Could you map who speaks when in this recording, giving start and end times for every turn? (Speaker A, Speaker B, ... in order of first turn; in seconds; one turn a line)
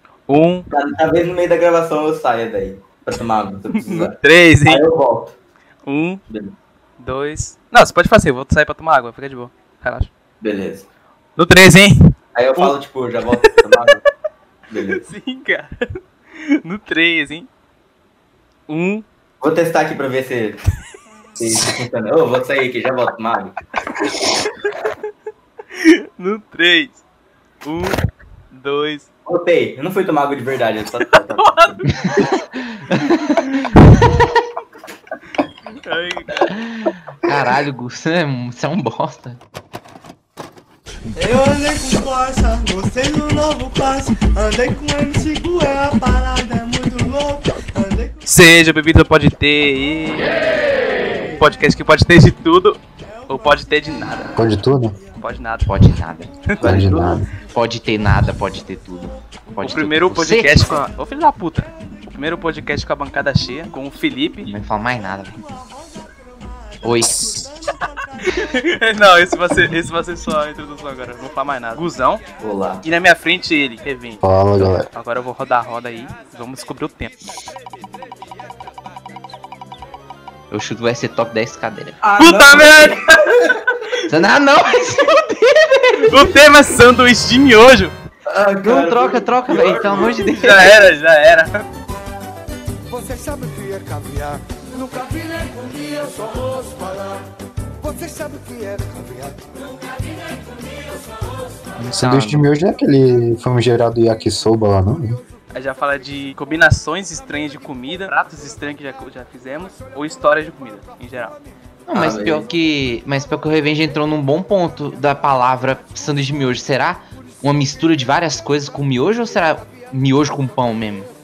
Speaker A: 0.3-0.7
Speaker B: 0.7-5.4
Speaker A: 3.8-4.8
Speaker A: 5.9-6.2
Speaker B: 6.3-6.6
Speaker A: 7.0-10.1
Speaker B: 10.4-10.9
Speaker A: 11.4-12.8
Speaker B: 12.3-14.0
Speaker A: 13.3-13.6
Speaker B: 14.7-15.1
Speaker A: 14.9-17.5
Speaker A: 18.7-19.1
Speaker B: 19.4-20.6
Speaker B: 21.4-23.6
Speaker A: 24.6-24.9
Speaker A: 25.7-27.0
Speaker A: 27.6-28.0
Speaker A: 28.5-29.1
Speaker B: 29.3-31.7
Speaker A: 31.1-32.3
Speaker C: 32.1-33.6
Speaker A: 33.0-34.0
Speaker A: 35.9-36.5
Speaker C: 36.4-39.4
Speaker D: 41.1-48.2
Speaker A: 48.2-54.4
Speaker E: 54.4-55.0
Speaker A: 55.2-55.9
Speaker C: 55.6-56.3
Speaker A: 56.5-56.8
Speaker B: 56.6-57.2
Speaker E: 56.6-57.3
Speaker C: 57.5-60.8
Speaker A: 59.6-64.5
Speaker C: 64.5-65.4
Speaker C: 66.8-67.4
Speaker A: 68.2-72.2
Speaker B: 72.4-72.8
Speaker A: 72.8-77.1
Speaker E: 74.2-74.9
Speaker C: 80.5-82.0
Speaker B: 82.0-83.6
Speaker A: 82.2-84.0
Speaker C: 84.1-86.3
Speaker A: 85.9-88.0
Speaker B: 88.3-90.3
Speaker C: 88.6-90.8
Speaker A: 89.8-91.7
Speaker D: 92.9-97.2
Speaker D: 97.8-99.5
Speaker C: 101.8-102.5
Speaker E: 102.0-105.2
Speaker A: 105.5-111.4
Speaker C: 111.9-121.1
Speaker B: 111.9-112.5